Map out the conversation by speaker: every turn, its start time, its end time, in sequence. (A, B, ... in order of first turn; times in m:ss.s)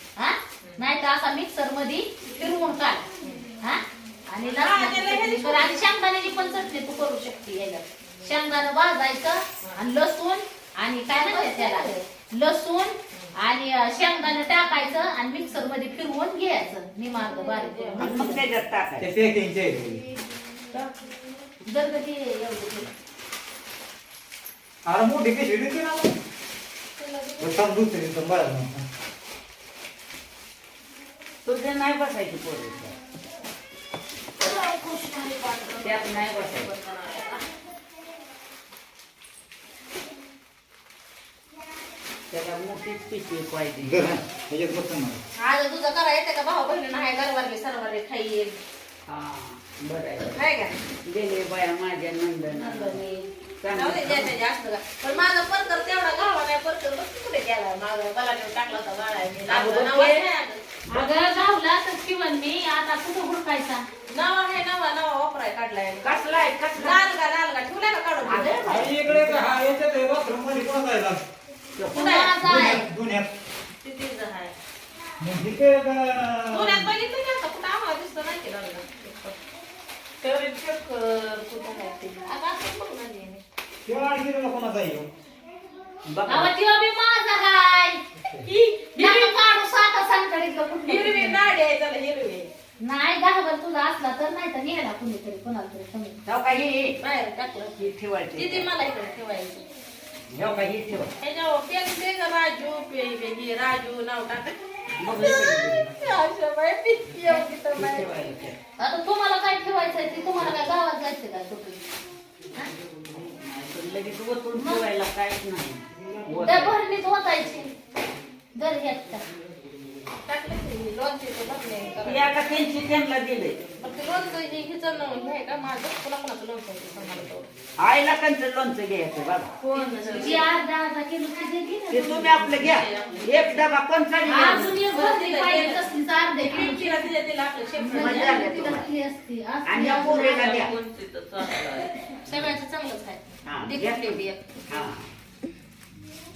0:00.2-0:03.1 A
0:03.6-0:18.4 A
0:04.4-0:05.8 B
0:11.1-0:12.0 B
0:17.5-0:18.1 B
0:18.0-0:19.1 C
0:19.0-0:20.0 D
0:21.6-0:22.9 A
0:24.8-0:26.1 D
0:27.0-0:27.5 E
0:27.4-0:28.8 D
0:31.4-0:33.0 C
0:34.4-0:37.4 B
0:35.8-0:36.7 C
0:42.3-0:44.2 C
0:43.8-0:45.2 D
0:45.4-0:48.6 B
0:49.0-0:50.4 C
0:50.3-0:50.8 B
0:50.9-0:53.0 C
0:52.5-0:53.3 A
0:53.6-0:54.4 C
0:53.7-1:00.6 B
0:59.4-1:00.2 C
1:00.9-1:03.8 A
1:04.1-1:06.1 B
1:06.0-1:07.0 C
1:06.7-1:08.7 B
1:08.2-1:09.4 C
1:08.7-1:11.2 D
1:11.7-1:12.3 C
1:11.9-1:12.6 B
1:11.9-1:12.9 A
1:12.4-1:13.3 D
1:13.8-1:14.5 B
1:15.2-1:16.9 D
1:16.5-1:19.4 B
1:20.2-1:22.2 E
1:22.2-1:23.4 B
1:23.8-1:25.1 D
1:26.0-1:26.5 C
1:26.2-1:28.0 A
1:28.4-1:29.3 B
1:29.0-1:31.4 A
1:30.9-1:32.5 B
1:32.8-1:36.2 A
1:36.2-1:37.0 C
1:37.0-1:37.8 B
1:37.8-1:38.7 C
1:38.3-1:39.6 B
1:40.3-1:41.1 C
1:41.2-1:48.1 B
1:45.0-1:45.9 C
1:47.7-1:48.6 C
1:48.8-1:51.8 A
1:53.1-1:56.8 C
1:54.6-1:54.8 A
1:56.4-1:57.7 A
1:58.5-1:59.3 A
2:00.2-2:02.4 B
2:02.0-2:03.6 C
2:03.8-2:07.5 B
2:07.8-2:09.5 C
2:09.6-2:10.5 B
2:09.7-2:10.4 E
2:10.1-2:12.4 A
2:11.9-2:14.8 C
2:12.1-2:13.7 B
2:14.2-2:17.0 A
2:14.5-2:18.5 B
2:17.8-2:20.5 A
2:17.9-2:18.8 C
2:19.6-2:20.8 C
2:20.1-2:22.2 E
2:22.2-2:24.9 B
2:22.3-2:22.5 C
2:23.4-2:25.1 C